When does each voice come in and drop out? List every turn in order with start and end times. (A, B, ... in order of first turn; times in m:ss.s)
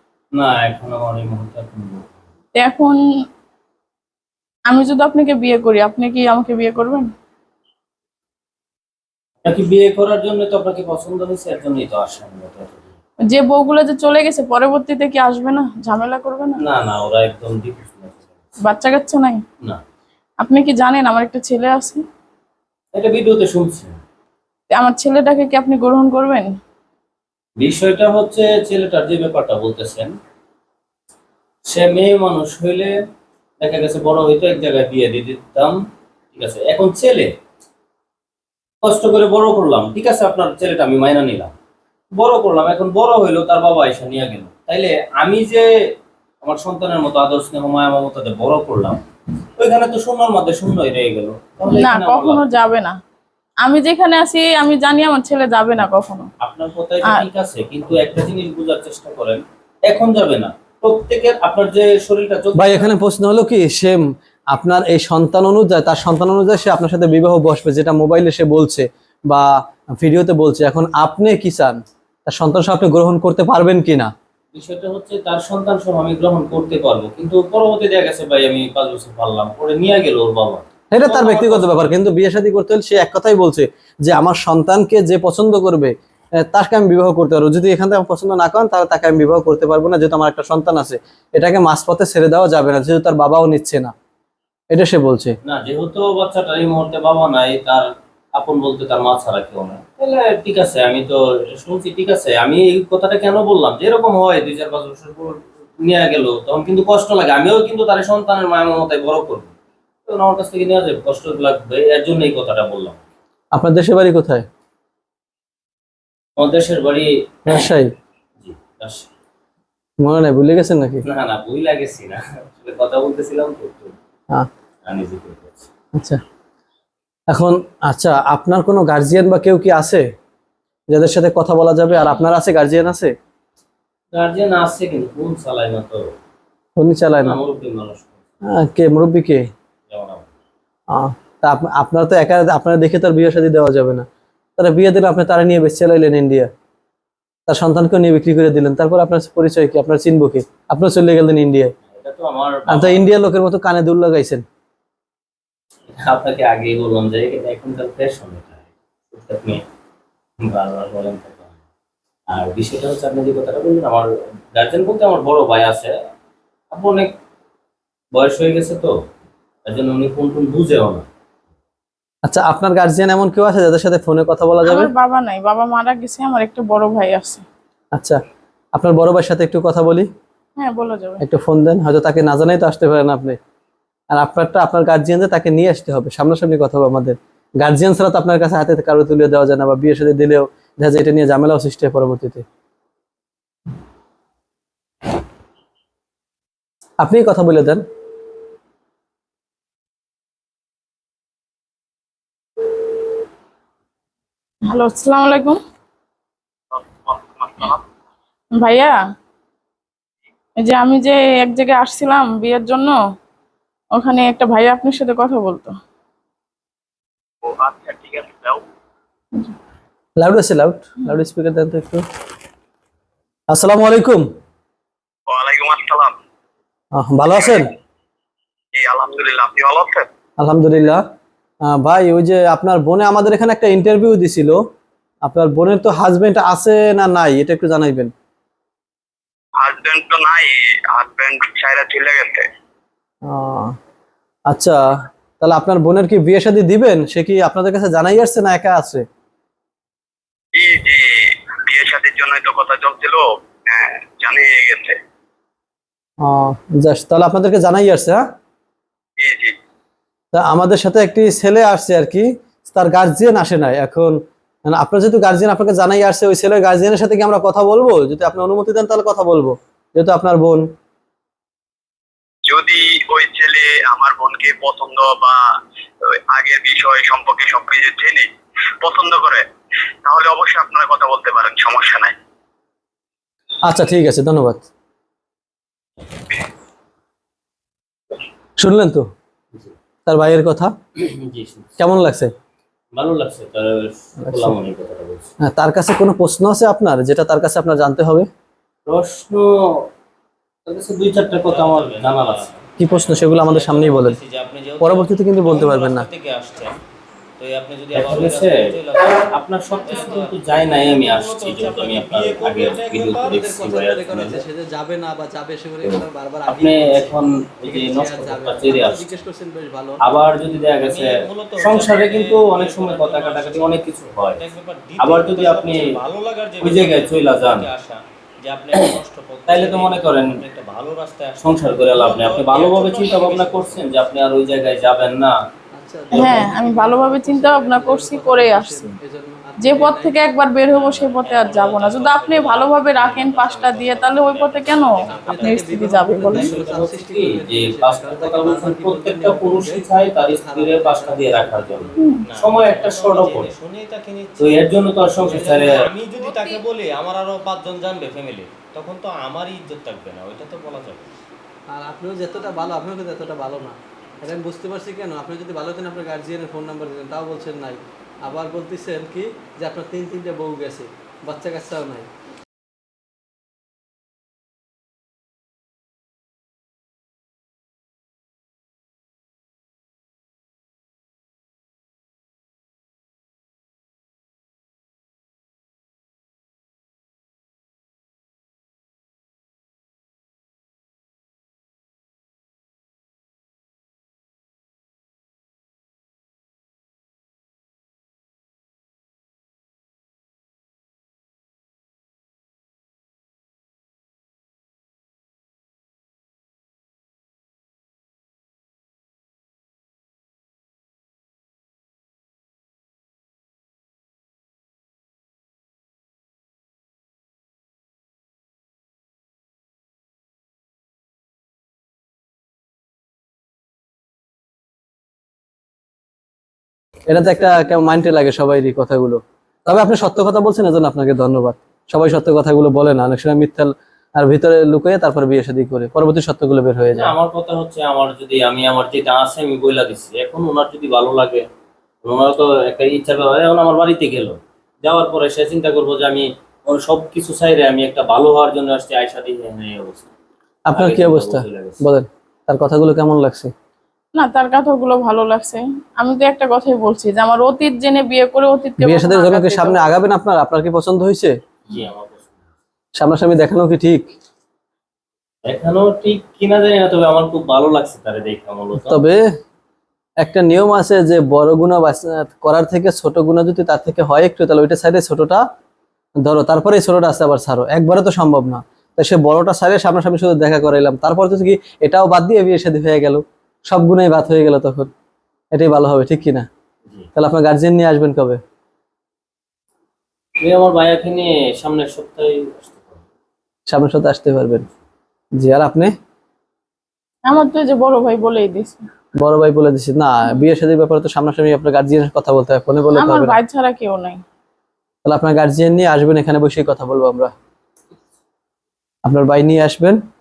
0:00.4-0:02.2 A
0:02.5-0:03.0 B
0:04.7-0:07.1 B
0:09.4-0:13.0 A
0:13.3-0:16.6 B
0:16.6-0:18.5 A
0:18.6-0:19.4 B
0:20.4-0:22.0 B
0:22.9-0:24.0 A
0:24.7-0:26.5 B
0:27.6-0:30.1 A
0:31.7-0:32.9 A
0:33.6-0:35.8 A
0:36.3-0:37.3 A
0:38.8-0:41.5 A
0:42.1-0:45.7 A
0:46.4-0:49.0 A
0:49.6-0:52.4 A
0:51.6-0:53.0 B
0:53.6-0:56.3 B
0:56.4-1:02.9 A
0:57.0-0:57.3 B
1:02.5-1:09.4 C
1:10.0-1:14.1 C
1:14.5-1:22.0 A
1:20.9-1:25.9 C
1:26.4-1:33.9 C
1:34.7-1:35.4 C
1:35.4-1:49.5 A
1:50.0-1:53.0 A
1:53.5-1:54.4 C
1:56.4-1:57.7 A
1:57.5-1:57.9 C
1:58.4-1:59.1 A
2:00.0-2:01.0 C
2:01.0-2:04.0 A
2:04.8-2:05.7 A
2:05.9-2:06.2 C
2:07.3-2:10.0 C
2:10.9-2:13.1 C
2:14.1-2:16.0 A
2:16.8-2:17.4 C
2:17.2-2:18.2 A
2:18.5-2:19.4 C
2:19.9-2:20.2 A
2:20.9-2:24.0 C
2:24.6-2:26.5 C
2:27.5-2:31.7 C
2:31.9-2:33.1 A
2:32.7-2:34.4 C
2:35.9-2:39.6 A
2:40.4-2:41.5 A
2:42.3-2:45.9 A
2:46.7-2:47.1 A
2:48.1-2:48.9 A
2:49.7-2:51.1 A
2:52.2-2:54.9 C
2:54.6-2:57.4 B
2:58.7-3:00.1 C
3:00.6-3:01.2 B
3:01.2-3:03.4 C
3:04.1-3:12.4 C
3:17.0-3:17.8 C
3:24.7-3:25.6 B
3:26.7-3:27.8 D
3:28.6-3:29.0 B
3:30.6-3:33.0 B
3:33.9-3:35.7 B
3:37.4-3:38.6 D
3:40.2-3:42.0 C
3:43.5-3:44.2 C
3:45.3-3:46.1 D
3:46.9-3:47.7 C
3:48.7-3:50.0 D
3:50.4-3:51.0 C
3:51.7-3:54.6 C
3:55.2-3:58.1 C
3:59.6-4:02.5 D
4:03.3-4:03.7 C
4:04.5-4:09.0 C
4:10.5-4:15.0 D
4:16.2-4:18.2 C
4:19.2-4:19.5 D
4:20.3-4:24.2 C
4:24.7-4:30.6 C
4:32.5-4:35.4 D
4:36.0-4:38.3 D
4:38.8-4:39.4 D
4:40.0-4:42.1 D
4:43.7-4:44.6 C
4:48.6-4:49.0 C
4:50.1-4:50.7 C
4:51.0-4:51.8 A
4:51.8-4:52.3 C
4:53.0-4:55.3 A
4:54.2-4:54.5 C
4:55.4-4:58.3 C
4:58.9-4:59.5 A
5:00.7-5:05.6 A
5:01.4-5:02.6 E
5:02.8-5:04.2 C
5:04.8-5:06.1 C
5:05.4-5:06.7 E
5:07.4-5:09.0 E
5:07.9-5:14.4 A
5:09.9-5:13.4 E
5:13.2-5:20.0 C
5:15.8-5:19.2 A
5:20.0-5:24.4 A
5:20.8-5:23.8 E
5:24.3-5:33.8 E
5:25.0-5:25.9 A
5:26.6-5:27.7 A
5:29.5-5:30.4 A
5:31.4-5:35.4 A
5:35.8-5:40.2 C
5:36.1-5:38.9 B
5:39.6-5:46.6 B
5:40.7-5:45.7 A
5:45.0-5:52.2 C
5:46.2-5:53.5 A
5:52.0-5:52.3 B
5:52.2-5:56.6 E
5:54.4-6:01.1 A
5:55.3-5:55.8 C
5:58.8-5:59.5 E
6:01.7-6:12.1 C
7:07.1-7:17.1 C
7:16.9-7:21.4 A
7:22.0-7:30.1 A
7:30.7-7:33.5 C
7:30.7-7:31.8 A
7:34.1-7:39.9 B
7:38.8-7:41.3 C
7:41.7-7:42.4 A
7:43.0-7:44.0 C
7:45.4-7:49.0 A
7:48.8-7:49.2 C
7:50.2-7:55.4 C
7:56.2-8:04.9 C
8:05.5-8:06.5 C
8:07.1-8:08.4 C
8:10.4-8:13.0 A
8:13.7-8:14.6 C
8:15.4-8:15.9 C
8:17.3-8:18.8 B
8:19.2-8:23.4 C
8:22.9-8:24.2 B
8:25.0-8:27.3 C
8:29.0-8:30.0 C